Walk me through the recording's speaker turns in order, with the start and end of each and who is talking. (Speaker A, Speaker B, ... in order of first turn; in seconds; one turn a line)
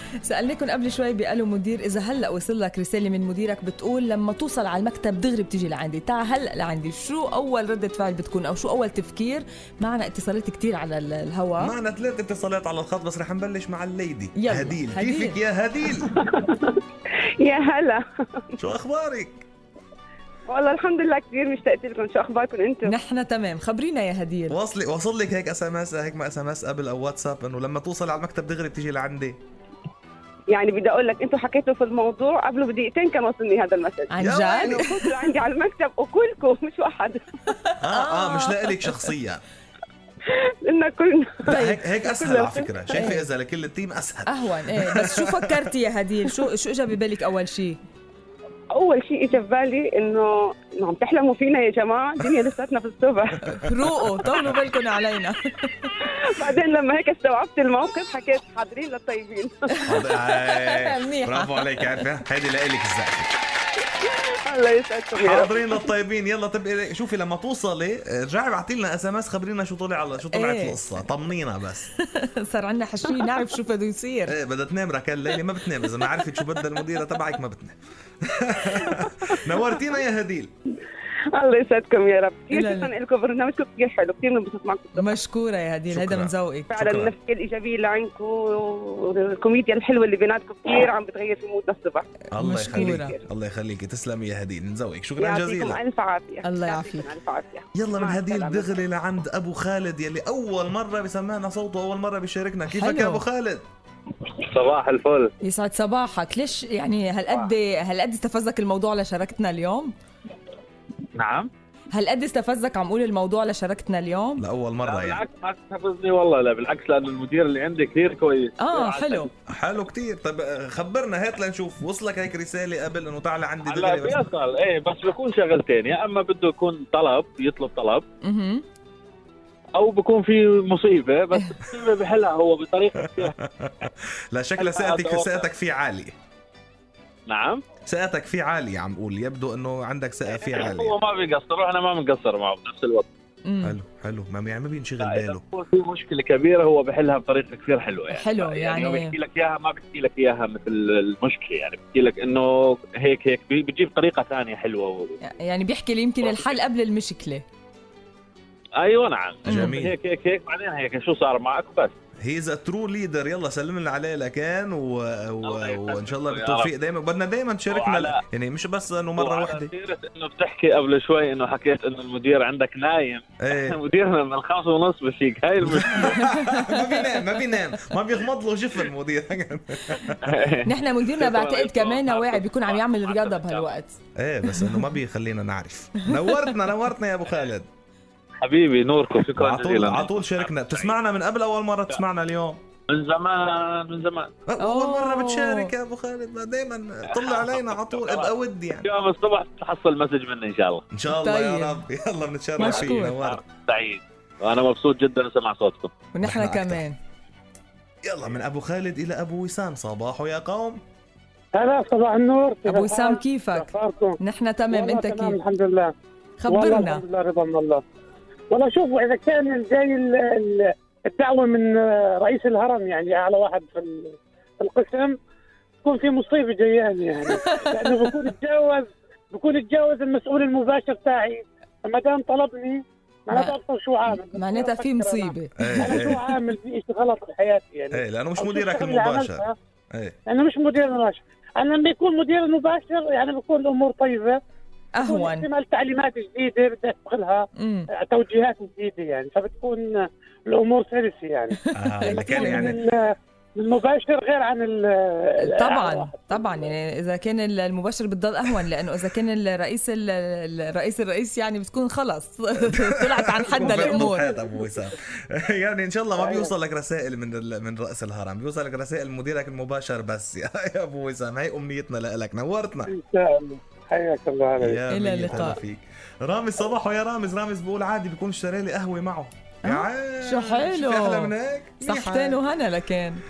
Speaker A: 0.2-11.8
Speaker B: 11.6-16.2
Speaker A: 14.4-15.4
Speaker C: 16.2-16.8
Speaker C: 17.4-18.6
Speaker B: 18.6-19.4
Speaker C: 20.5-22.9
Speaker A: 22.9-24.6
Speaker B: 24.5-29.4
Speaker C: 30.5-37.4
Speaker A: 34.1-35.1
Speaker B: 34.2-34.9
Speaker A: 37.7-39.0
Speaker B: 37.8-39.4
Speaker C: 40.3-43.1
Speaker B: 41.5-45.7
Speaker A: 41.5-41.8
Speaker A: 43.0-43.2
Speaker A: 44.3-47.8
Speaker C: 48.7-53.4
Speaker A: 53.6-55.9
Speaker C: 56.0-59.9
Speaker B: 59.9-63.4
Speaker A: 60.5-61.9
Speaker C: 64.0-65.6
Speaker B: 65.2-71.9
Speaker A: 70.3-70.9
Speaker A: 72.0-74.3
Speaker B: 74.3-80.5
Speaker C: 78.8-79.4
Speaker C: 81.3-85.2
Speaker A: 82.5-82.9
Speaker A: 85.0-86.7
Speaker B: 85.9-87.1
Speaker C: 86.7-92.2
Speaker B: 92.3-95.8
Speaker A: 92.3-93.1
Speaker C: 92.9-93.2
Speaker C: 95.2-98.7
Speaker A: 96.4-97.1
Speaker B: 97.8-103.6
Speaker A: 102.7-103.2
Speaker D: 104.3-105.3
Speaker A: 105.4-109.9
Speaker D: 111.2-111.5
Speaker A: 111.9-114.5
Speaker B: 114.4-115.2
Speaker D: 114.8-119.3
Speaker A: 118.6-119.3
Speaker B: 119.5-124.2
Speaker D: 123.7-128.1
Speaker A: 128.2-128.7
Speaker D: 129.7-133.9
Speaker B: 133.3-136.2
Speaker D: 134.6-135.5
Speaker D: 137.3-137.6
Speaker B: 137.9-140.9
Speaker D: 140.3-143.1
Speaker A: 143.4-143.8
Speaker B: 143.6-145.4
Speaker D: 145.0-155.2
Speaker A: 148.1-149.2
Speaker A: 155.2-157.4
Speaker D: 156.2-156.6
Speaker D: 158.8-161.9
Speaker A: 159.5-159.8
Speaker B: 159.5-160.0
Speaker B: 162.2-169.7
Speaker D: 165.4-166.7
Speaker D: 167.7-168.2
Speaker D: 169.2-176.3
Speaker B: 173.4-173.8
Speaker B: 175.6-180.2
Speaker A: 176.3-177.6
Speaker D: 180.2-183.7
Speaker A: 180.6-184.8
Speaker B: 184.2-187.7
Speaker D: 188.4-191.0
Speaker B: 189.4-192.6
Speaker D: 192.9-194.3
Speaker B: 194.5-198.9
Speaker A: 194.6-195.7
Speaker D: 197.1-200.8
Speaker B: 200.9-203.4
Speaker A: 201.1-201.8
Speaker A: 202.6-203.2
Speaker D: 202.6-205.9
Speaker A: 206.1-207.0
Speaker B: 206.2-206.8
Speaker B: 208.0-210.8
Speaker E: 211.5-214.2
Speaker A: 212.7-213.7
Speaker A: 214.2-215.4
Speaker E: 214.7-215.9
Speaker A: 216.4-217.0
Speaker E: 216.5-217.8
Speaker E: 218.5-225.2
Speaker E: 225.8-239.5
Speaker A: 234.1-236.2
Speaker B: 235.6-236.2
Speaker B: 237.9-240.2
Speaker E: 240.3-244.4
Speaker A: 244.9-245.5
Speaker E: 245.0-247.4
Speaker A: 247.6-247.9
Speaker E: 248.0-256.7
Speaker A: 251.8-252.7
Speaker B: 251.8-252.8
Speaker A: 255.4-264.3
Speaker B: 262.6-272.9
Speaker E: 263.5-264.4
Speaker E: 266.2-266.5
Speaker E: 272.9-275.5
Speaker B: 274.6-282.4
Speaker A: 274.9-275.6
Speaker A: 279.6-283.2